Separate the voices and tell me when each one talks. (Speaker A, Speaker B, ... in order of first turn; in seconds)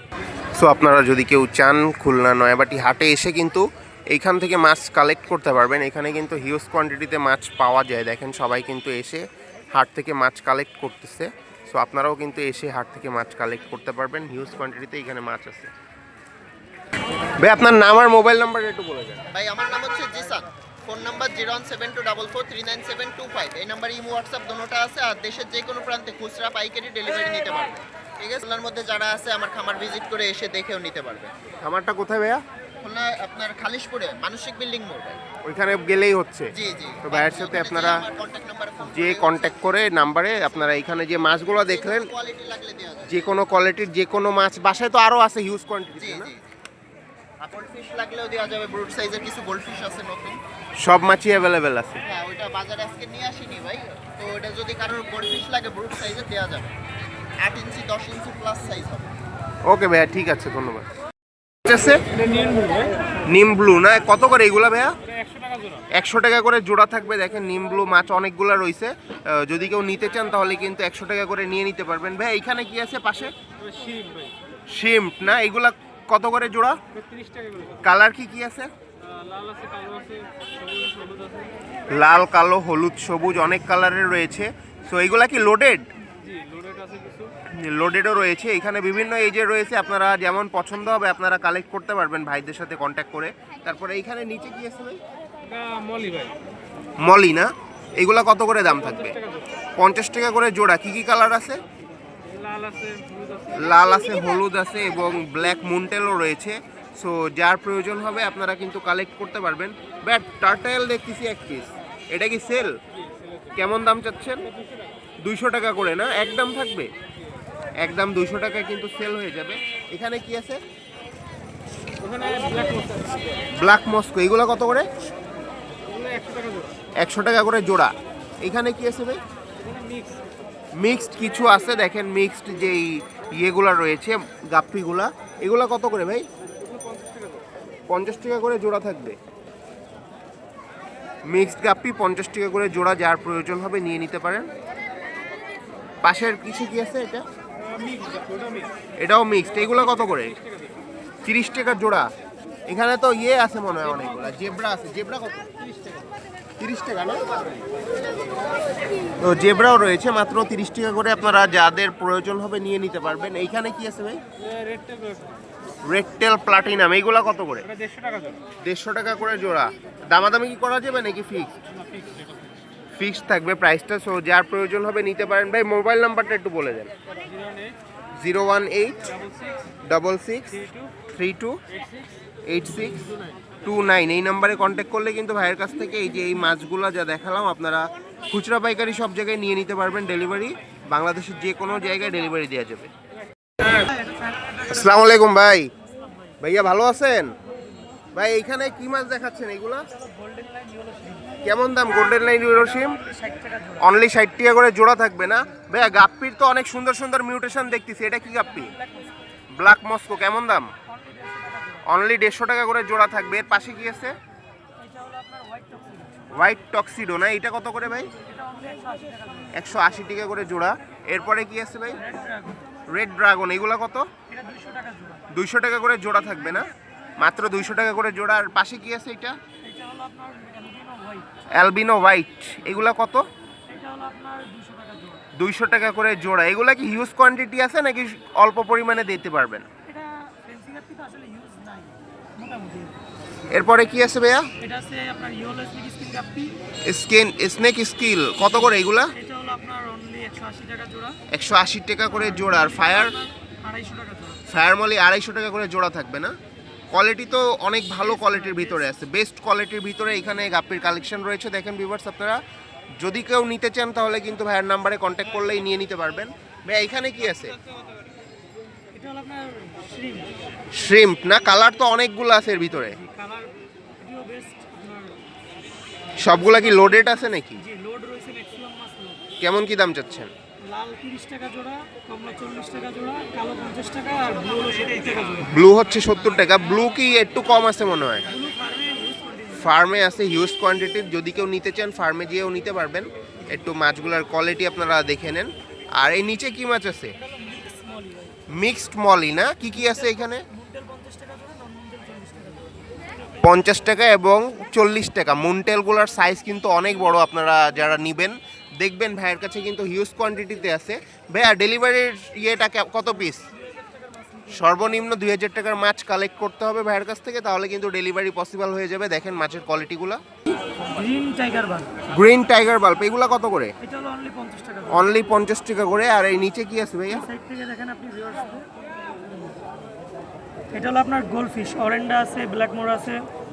Speaker A: 0.6-9.2, 9.7-15.7, 17.4-19.2, 31.6-32.4, 35.4-36.5, 37.0-38.0, 38.9-42.1, 43.1-46.3, 50.8-52.0, 59.6-60.9, 61.6-62.0, 63.3-64.9, 65.9-73.3, 74.7-76.8, 77.8-78.7, 81.9-85.8, 87.5-95.0, 97.0-99.2, 99.8-101.6, 103.5-112.7, 113.5-114.5, 115.2-116.9, 117.8-120.6, 123.5-124.8, 127.0-129.2, 130.8-136.2, 137.9-139.2, 141.2-144.5, 146.0-147.2, 149.0-150.3, 151.2-152.1, 152.7-155.5, 156.6-157.2, 159.2-164.2, 165.8-167.7, 168.6-171.6, 173.0-176.9, 178.2-179.1, 179.9-180.6, 181.1-181.6, 182.5-183.1, 183.6-192.9, 194.6-195.7, 196.4-197.3, 198.1-199.8, 201.4-203.0, 203.8-208.7, 209.5-210.7, 211.8-214.1, 216.3-218.1, 219.5-222.0, 222.9-224.1, 225.3-226.7, 227.2-229.4, 231.5-233.2, 235.3-239.7, 243.5-244.5, 246.8-249.1, 251.3-253.2, 254.5-256.3, 256.9-262.4, 263.0-267.6, 270.7-273.0, 276.2-277.6, 279.4-280.3, 285.4-288.3, 289.5-297.1, 298.5-300.4, 303.4-313.5, 314.5-320.2, 322.1-323.7, 324.9-327.3
Speaker B: 19.3-31.3, 32.8-35.2, 36.5-39.6, 41.5-43.2, 46.0-46.5, 47.4-50.4, 52.0-56.7, 57.4-59.1
Speaker C: 79.3-80.1, 80.8-81.0, 86.6-87.1, 95.6-96.3, 102.4-103.2
Speaker D: 193.9-194.3, 200.1-201.3, 202.5-203.8, 211.0-211.8, 214.8-216.2, 218.3-219.5, 222.0-222.6, 224.3-225.2, 229.6-231.4, 233.7-235.2, 239.9-243.0, 244.6-246.6, 249.2-251.2, 252.5-254.4, 258.3-258.6, 268.9-270.3, 273.0-275.2, 276.5-279.2, 280.6-285.4, 288.3-289.7, 297.2-298.4, 299.8-302.8, 313.7-314.4, 320.8-322.0, 323.8-325.0, 327.2-328.7, 330.7-333.3